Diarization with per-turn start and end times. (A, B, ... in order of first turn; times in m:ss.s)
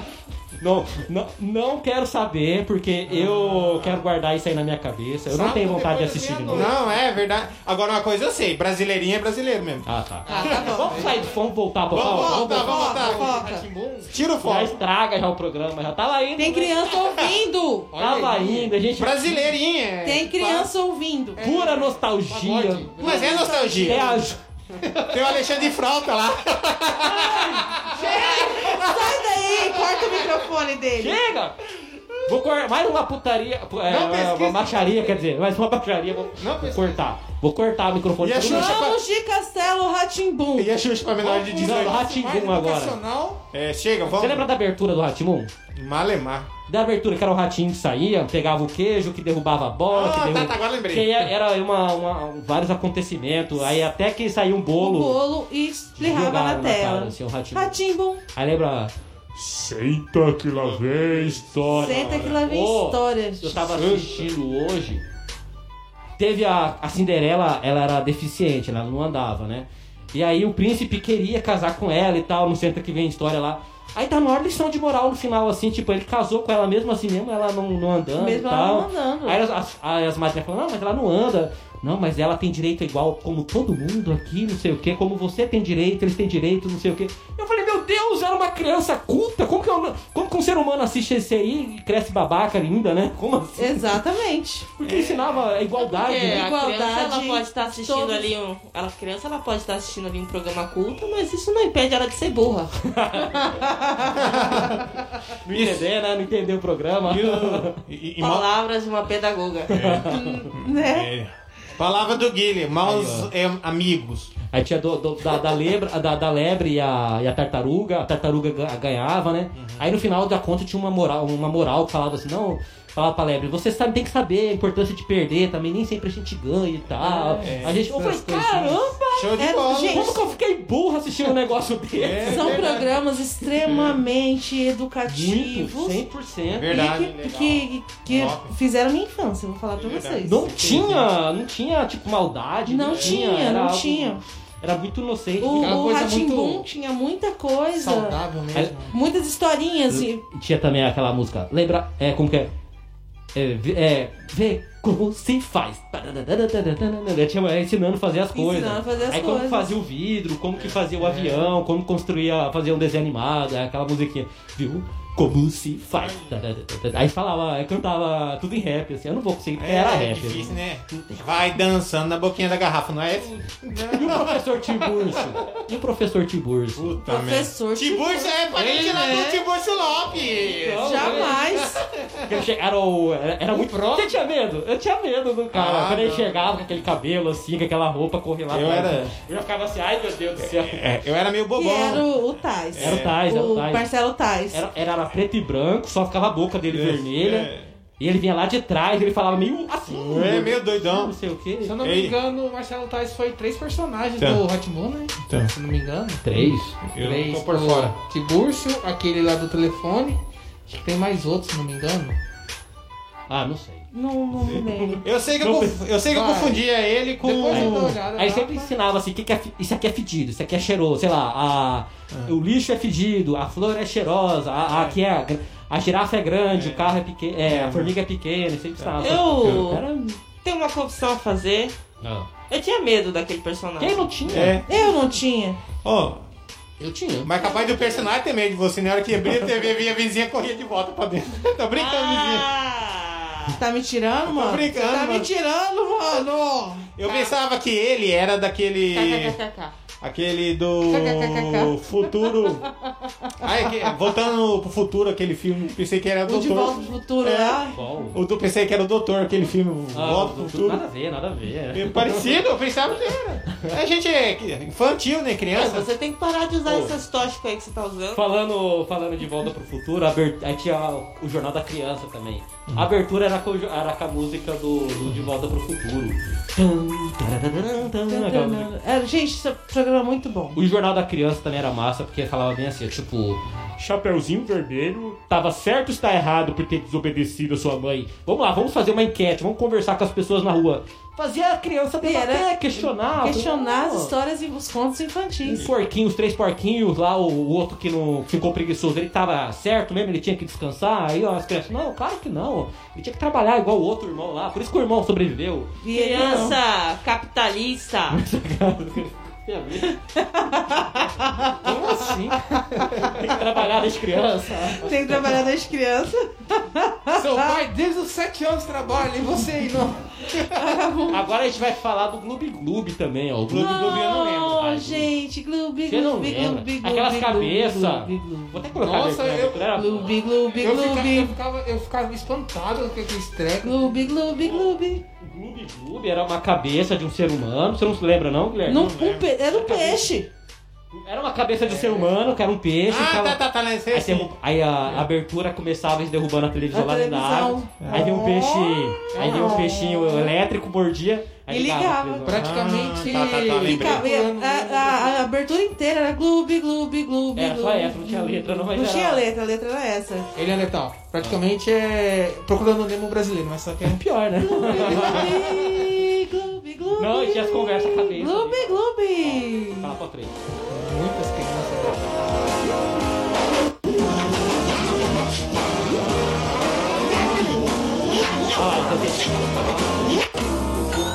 0:00.6-0:06.7 A
0:03.3-0:04.0 B
0:05.3-0:07.0 C
0:06.5-0:09.9 B
0:09.9-0:12.7 A
0:10.3-0:11.3 C
0:10.3-0:11.2 D
0:11.9-0:13.4 B
0:12.0-0:14.1 C
0:12.1-0:13.7 D
0:14.0-0:14.8 B
0:14.4-0:17.0 A
0:16.4-0:17.9 D
0:17.9-0:18.8 C
0:18.0-0:19.5 A
0:19.0-0:20.7 B
0:20.0-0:21.4 D
0:21.4-0:23.6 C
0:21.4-0:24.4 A
0:23.0-0:24.2 B
0:23.0-0:24.2 D
0:24.9-0:30.5 B
0:27.2-0:28.4 A
0:28.4-0:31.2 D
0:31.0-0:31.6 A
0:32.1-0:32.5 B
0:32.3-0:38.9 A
0:33.9-0:35.2 C
0:36.4-0:37.0 B
0:38.2-0:39.0 B
0:38.4-0:40.7 D
0:40.6-0:42.0 B
0:41.2-0:43.4 C
0:41.5-0:43.0 A
0:43.5-0:44.5 B
0:44.2-0:45.5 A
0:45.7-0:46.5 B
0:46.7-0:55.2 A
0:49.9-0:51.3 B
0:54.8-0:58.2 D
0:56.0-0:57.8 A
0:58.3-1:05.0 A
1:00.5-1:02.4 B
1:01.7-1:03.7 D
1:06.2-1:34.0 A
1:18.2-1:19.4 D
1:33.6-1:34.7 D
1:34.8-1:36.5 A
1:34.8-1:35.5 B
1:35.8-1:42.7 E
1:36.1-1:38.3 D
1:42.8-1:43.5 A
1:43.3-1:44.2 D
1:44.0-1:44.8 B
1:45.4-1:47.8 A
1:45.5-1:45.9 B
1:47.0-1:48.5 B
1:48.2-1:49.8 E
1:49.7-1:50.4 A
1:49.7-1:54.4 B
1:50.1-1:51.1 D
1:52.8-1:53.3 A
1:54.5-2:09.3 A
1:59.6-1:59.9 B
2:07.0-2:07.4 D
2:07.4-2:09.0 C
2:07.4-2:07.8 B
2:09.1-2:10.2 B
2:09.3-2:10.2 D
2:09.8-2:12.7 A
2:11.9-2:13.0 B
2:12.2-2:16.0 D
2:13.6-2:14.0 B
2:15.1-2:16.8 A
2:16.5-2:18.5 B
2:16.7-2:20.4 D
2:19.8-2:21.0 B
2:20.2-2:25.8 A
2:20.6-2:21.0 C
2:22.7-2:24.2 D
2:22.9-2:23.3 B
2:25.4-2:28.2 D
2:25.6-2:26.7 C
2:27.7-2:29.0 C
2:28.9-2:30.2 D
2:29.9-2:32.5 A
2:33.3-2:50.5 A
2:38.3-2:39.7 D
2:40.6-2:41.3 B
2:46.0-2:46.4 B
2:49.6-2:55.4 B
2:53.9-2:56.9 A
2:56.8-3:02.4 B
2:57.0-2:59.4 D
2:58.6-2:59.4 C
3:00.5-3:01.6 A
3:00.8-3:01.8 D
3:01.0-3:01.4 C
3:02.2-3:10.9 A
3:03.5-3:04.2 C
3:05.5-3:06.6 B
3:08.5-3:09.2 B
3:10.4-3:12.1 B
3:11.6-3:14.6 D
3:12.7-3:13.2 B
3:12.8-3:13.9 A
3:14.5-3:21.8 A
3:16.7-3:17.7 B
3:19.9-3:21.2 B
3:21.6-3:26.3 C
3:21.8-3:22.2 B
3:25.2-3:25.5 B
3:26.2-3:26.8 A
3:26.4-3:28.0 B
3:27.0-3:32.2 C
3:33.3-3:33.9 A
3:33.9-3:35.0 D
3:34.4-3:38.0 B
3:35.4-3:35.8 A
3:36.1-3:36.6 C
3:37.2-3:38.7 C
3:37.5-3:50.2 A
3:42.1-3:42.4 B
3:44.7-3:45.0 B
3:46.5-3:48.0 B
3:48.8-3:49.7 B
3:49.0-3:49.8 E
3:50.4-3:51.8 E
3:52.0-3:52.3 A
3:52.5-3:54.1 E
3:53.8-3:54.6 A
3:54.3-3:54.8 B
3:54.7-3:55.6 D
3:55.8-3:56.2 B
3:56.8-3:57.3 A
3:57.2-4:02.5 B
3:57.4-3:57.9 E
4:01.8-4:03.6 E
4:03.6-4:06.9 D
4:04.3-4:05.3 B
4:06.8-4:09.4 B
4:07.0-4:07.3 E
4:08.9-4:09.7 E
4:10.0-4:12.7 B
4:10.9-4:12.4 D
4:13.4-4:20.8 B
4:16.3-4:17.8 D
4:17.7-4:18.2 A
4:19.9-4:22.3 A
4:21.7-4:25.9 B
4:25.5-4:28.2 E
4:26.6-4:27.0 A
4:28.1-4:38.7 A
4:38.1-4:40.6 D
4:40.6-4:54.1 A
4:52.0-4:55.7 D
4:55.4-5:06.5 A
5:05.8-5:06.6 D
5:05.9-5:08.2 E
5:08.1-5:10.0 A
5:10.2-5:13.1 D
5:11.6-5:15.2 A
5:14.8-5:17.6 D
5:17.1-5:20.1 C
5:20.4-5:21.2 D
5:21.1-5:25.1 A
5:23.5-5:24.6 B
5:23.5-5:28.6 D
5:25.9-5:30.1 A
5:28.8-5:29.7 C
5:29.7-5:31.4 D
5:30.6-5:34.0 C
5:33.6-5:35.0 D
5:35.2-5:38.9 A
5:38.7-5:40.3 D
5:38.7-5:39.3 B
5:39.5-5:40.1 A
5:40.9-5:52.5 A
5:41.7-5:42.1 B
5:42.9-5:44.3 B
5:46.7-5:50.3 D
5:47.8-5:48.4 B
5:49.2-5:49.6 C
5:49.2-5:49.6 B
5:51.5-5:52.4 D
5:52.2-5:55.2 C
5:52.3-5:54.1 B
5:53.4-6:00.3 D
5:57.4-5:59.3 A
6:00.4-6:04.0 C
6:03.8-6:06.0 A
6:04.4-6:09.9 D
6:04.8-6:05.3 C
6:07.0-6:10.4 A
6:10.7-6:12.0 C
6:18.5-6:19.8 A